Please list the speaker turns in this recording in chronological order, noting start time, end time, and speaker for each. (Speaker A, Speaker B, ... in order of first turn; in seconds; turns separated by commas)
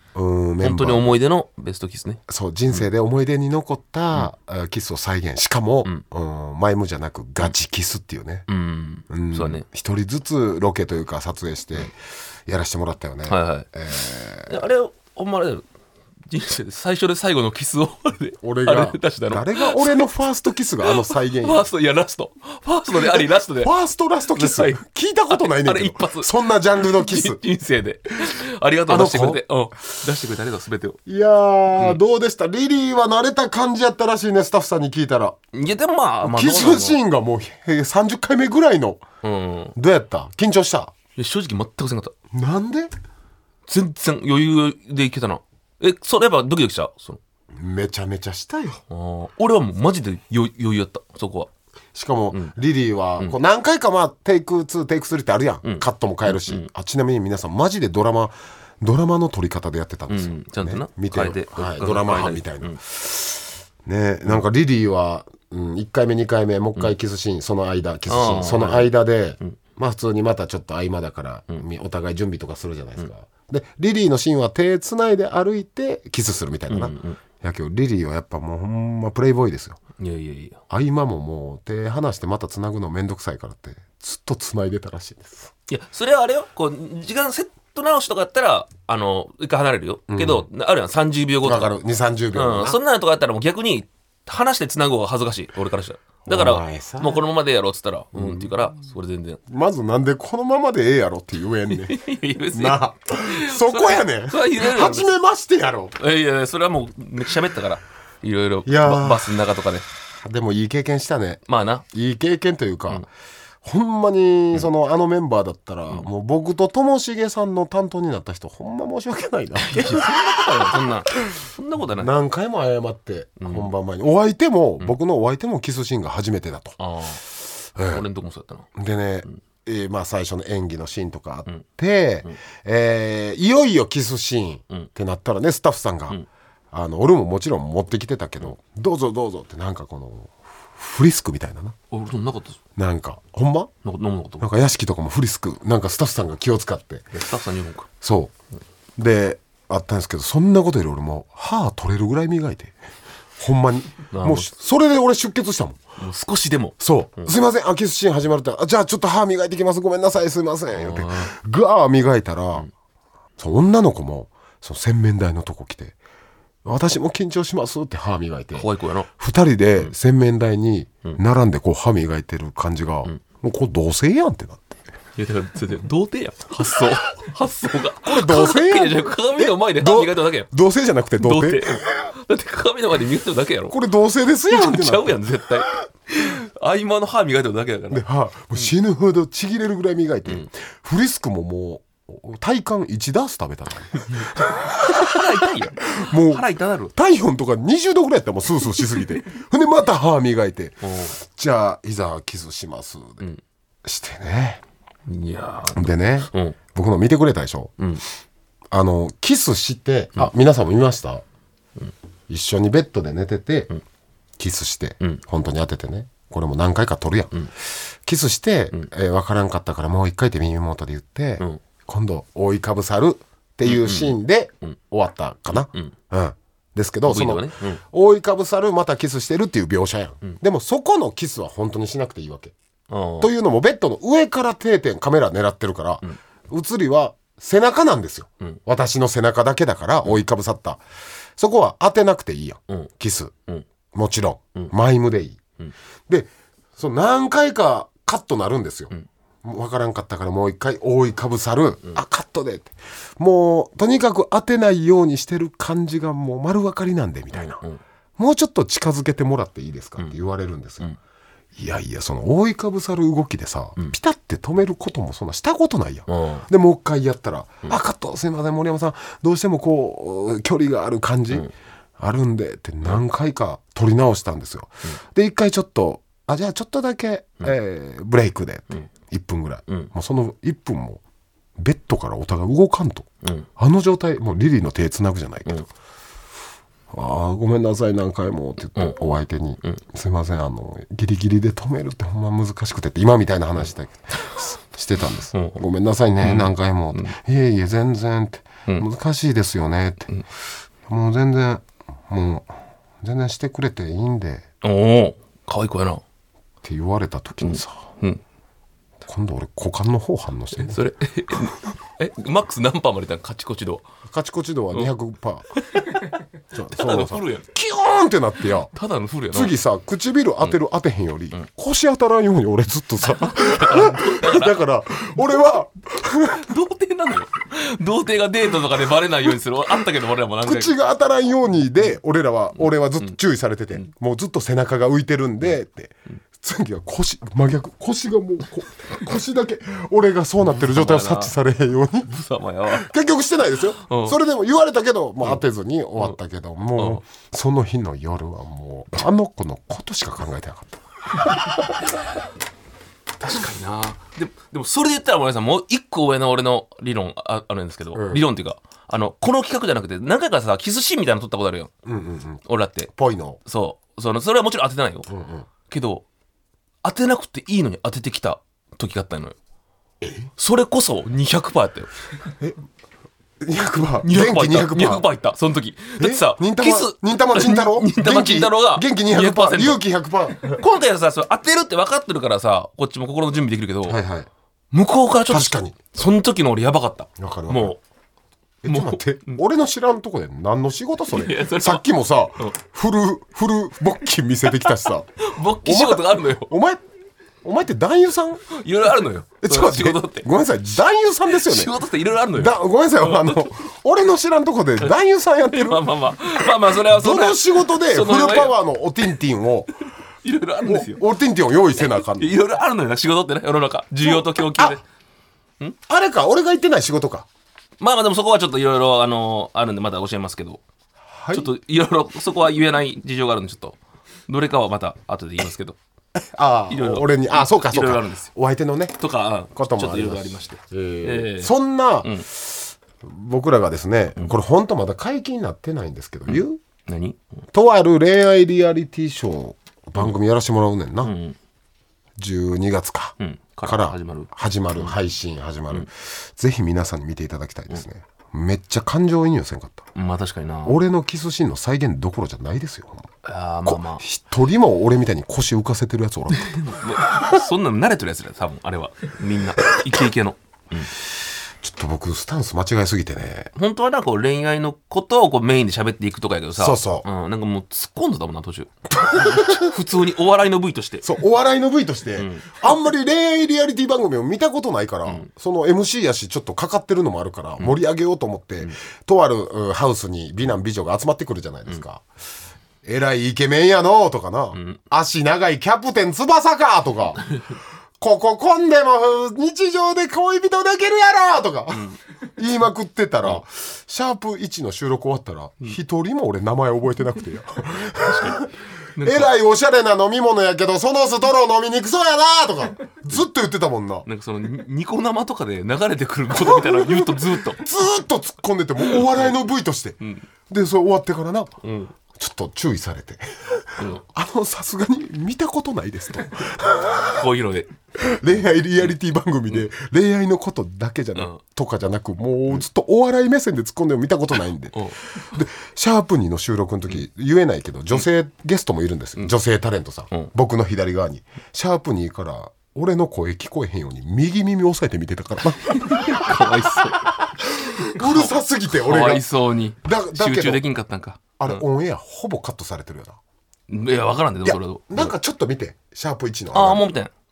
Speaker A: 0.1-1.1, Speaker B: 0.6-2.2, Speaker A: 2.3-8.4, Speaker B: 8.5-9.6, Speaker A: 9.1-11.9, Speaker A: 12.4-14.6, Speaker B: 13.3-13.7, Speaker B: 14.4-15.7, Speaker B: 16.3-20.0, Speaker A: 18.4-21.6, Speaker B: 20.8-23.7, Speaker A: 22.9-27.4, Speaker B: 24.3-31.0, Speaker A: 28.9-29.4, Speaker A: 31.1-35.4, Speaker B: 35.5-37.0, Speaker A: 36.2-39.0, Speaker B: 39.2-39.7, Speaker A: 39.7-40.9, Speaker B: 41.1-42.1, Speaker A: 42.3-42.9, Speaker B: 43.7-47.2, Speaker A: 47.5-48.8, Speaker B: 48.9-51.5, Speaker A: 51.9-79.8, Speaker B: 55.6-56.7, Speaker B: 60.1-62.8, Speaker B: 68.1-69.5, Speaker B: 76.7-77.2, Speaker B: 80.0-80.6, Speaker A: 80.7-85.5, Speaker B: 85.7-91.7, Speaker A: 90.1-90.5, Speaker A: 91.4-92.8, Speaker B: 92.3-99.4, Speaker A: 96.2-97.2, Speaker A: 98.1-98.5, Speaker A: 99.5-102.0, Speaker B: 101.7-105.1, Speaker A: 102.5-105.9, Speaker B: 106.0-109.8, Speaker A: 108.7-109.3, Speaker A: 110.2-113.1, Speaker B: 111.5-111.8, Speaker A: 113.6-120.7, Speaker B: 119.6-122.1, Speaker A: 122.0-126.8, Speaker B: 123.4-123.7, Speaker B: 126.8-127.2, Speaker A: 127.7-128.1, Speaker B: 127.9-128.7, Speaker A: 128.8-136.2, Speaker A: 136.7-141.8, Speaker B: 141.9-142.6, Speaker A: 142.8-143.7, Speaker B: 143.8-144.5, Speaker A: 144.4-147.1, Speaker B: 147.1-147.9, Speaker A: 148.0-148.3, Speaker A: 149.0-152.8, Speaker A: 153.4-155.8, Speaker B: 154.1-154.5, Speaker B: 156.0-157.3, Speaker A: 156.8-162.7, Speaker B: 160.7-161.3, Speaker A: 163.4-166.0, Speaker A: 166.6-168.7, Speaker B: 168.5-169.1, Speaker A: 169.2-174.7, Speaker B: 175.2-180.5, Speaker A: 178.0-181.8, Speaker B: 181.2-183.8, Speaker A: 183.7-185.2, Speaker B: 184.5-188.0, Speaker A: 187.9-203.2, Speaker B: 194.1-196.9, Speaker B: 200.8-201.2, Speaker A: 203.8-204.6, Speaker B: 205.1-206.6, Speaker A: 205.7-207.7, Speaker A: 208.7-211.2, Speaker A: 212.3-213.7, Speaker A: 214.4-232.5, Speaker B: 223.7-224.8, Speaker B: 225.5-225.9, Speaker B: 227.1-227.8, Speaker B: 232.9-233.3, Speaker A: 233.2-240.8, Speaker A: 241.4-243.3, Speaker A: 243.9-245.4, Speaker A: 246.1-248.9, Speaker A: 249.4-257.6, Speaker B: 257.3-257.8, Speaker A: 258.2-260.9, Speaker A: 261.6-281.0, Speaker B: 266.1-266.4, Speaker A: 281.6-285.7, Speaker A: 286.9-300.1, Speaker B: 295.3-295.6, Speaker B: 296.2-297.1, Speaker A: 300.9-304.4, Speaker B: 304.6-306.0, Speaker A: 306.6-307.8, Speaker B: 307.4-308.2, Speaker A: 309.0-310.8, Speaker B: 310.6-313.8, Speaker A: 314.1-315.5, Speaker B: 315.6-316.0, Speaker A: 316.5-318.7, Speaker B: 316.7-317.4, Speaker B: 318.7-319.5, Speaker A: 319.3-326.5, Speaker B: 323.1-324.6, Speaker B: 326.3-330.7, Speaker A: 330.4-342.1, Speaker B: 340.5-341.3, Speaker B: 342.1-342.9, Speaker A: 342.7-350.8, Speaker B: 343.9-344.2, Speaker B: 353.2-361.7, Speaker A: 357.9-358.2, Speaker A: 361.8-363.4, Speaker B: 362.4-362.9, Speaker B: 363.4-365.1, Speaker A: 365.1-365.5, Speaker B: 365.7-366.0, Speaker B: 366.8-369.4, Speaker A: 370.0-370.3, Speaker B: 370.4-371.9, Speaker A: 373.4-375.1, Speaker B: 374.0-379.8, Speaker A: 376.0-380.6, Speaker B: 380.4-384.0, Speaker A: 383.9-384.3, Speaker B: 384.7-387.8, Speaker A: 385.3-385.8, Speaker A: 387.2-387.8, Speaker A: 388.6-395.1, Speaker B: 388.7-389.4, Speaker B: 391.1-391.8, Speaker B: 394.6-396.5, Speaker A: 395.6-396.8, Speaker A: 397.4-398.5, Speaker B: 398.5-400.3, Speaker A: 399.4-401.8, Speaker B: 401.4-403.4, Speaker A: 402.3-409.7, Speaker B: 405.5-408.6, Speaker B: 410.2-411.0, Speaker A: 410.6-412.4, Speaker B: 411.9-414.8, Speaker A: 414.0-414.8, Speaker A: 415.9-417.2, Speaker B: 417.8-420.6, Speaker A: 421.1-421.5, Speaker B: 421.3-423.8, Speaker B: 424.3-425.8, Speaker A: 426.1-429.0, Speaker B: 426.7-428.3, Speaker B: 429.0-431.5, Speaker A: 429.5-436.6, Speaker B: 436.3-437.2, Speaker A: 437.5-441.1, Speaker B: 441.0-441.4, Speaker A: 442.2-449.9, Speaker B: 443.2-444.9, Speaker B: 449.9-450.8, Speaker A: 450.6-453.1, Speaker B: 453.2-454.0, Speaker A: 453.6-457.2, Speaker B: 456.3-460.9, Speaker A: 461.6-463.5, Speaker B: 463.6-471.1, Speaker A: 466.6-467.1, Speaker A: 469.0-469.7, Speaker A: 471.0-482.0, Speaker B: 472.2-472.5, Speaker A: 482.8-487.3, Speaker A: 488.0-498.5, Speaker B: 497.9-499.3, Speaker A: 499.0-504.1, Speaker B: 504.1-507.6, Speaker A: 506.3-510.0, Speaker B: 510.0-510.2, Speaker A: 510.5-511.5, Speaker B: 511.6-511.9, Speaker A: 512.1-517.2, Speaker B: 513.8-514.0, Speaker B: 517.1-517.7, Speaker A: 518.0-536.5, Speaker B: 521.1-521.4, Speaker B: 535.7-537.1, Speaker A: 537.4-539.2, Speaker B: 537.7-541.6, Speaker A: 539.8-540.6, Speaker A: 541.4-543.2, Speaker B: 543.7-545.1, Speaker A: 544.4-546.9, Speaker B: 546.5-547.1